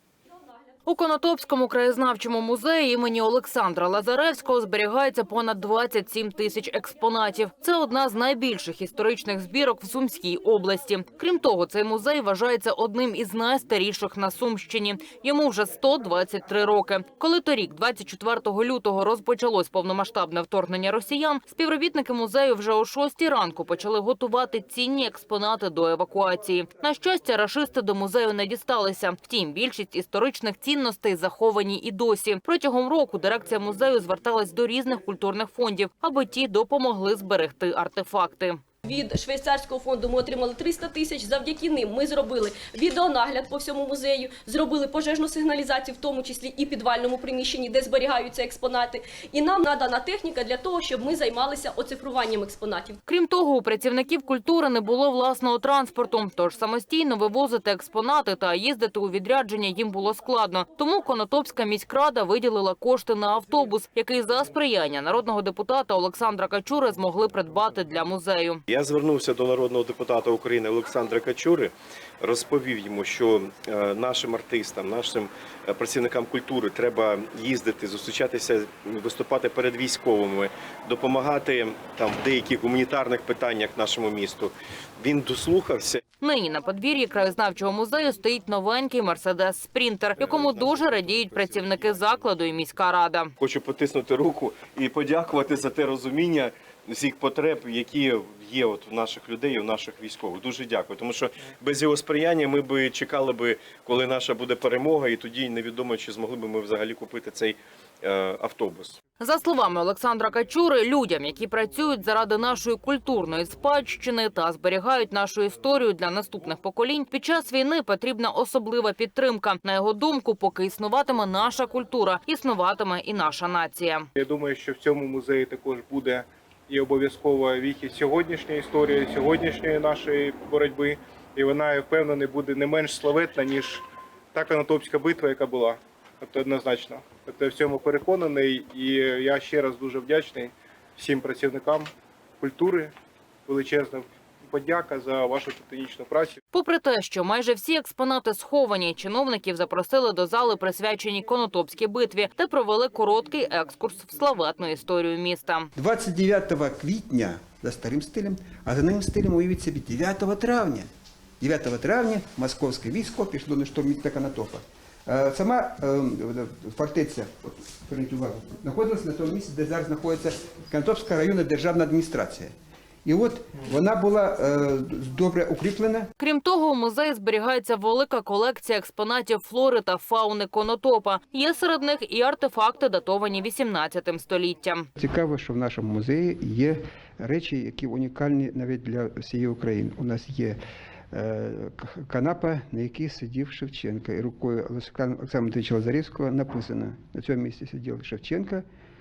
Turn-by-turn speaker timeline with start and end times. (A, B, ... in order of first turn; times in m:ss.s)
0:00.8-0:38.6 A
0:38.8-0:53.0 B
0:53.0-1:08.6 A
1:08.7-1:26.0 C
1:26.2-1:33.3 A
1:30.2-1:30.8 C
1:33.4-1:49.0 C
1:49.2-2:04.1 A
2:04.2-2:13.8 D
2:14.3-2:21.9 D
2:22.4-2:22.9 D
2:23.5-2:26.4 D
2:26.5-2:35.7 A
2:35.7-2:40.9 E
2:41.4-2:52.5 E
2:53.0-2:56.1 E
2:56.2-3:04.8 A
3:05.0-3:10.6 E
3:11.1-3:18.6 E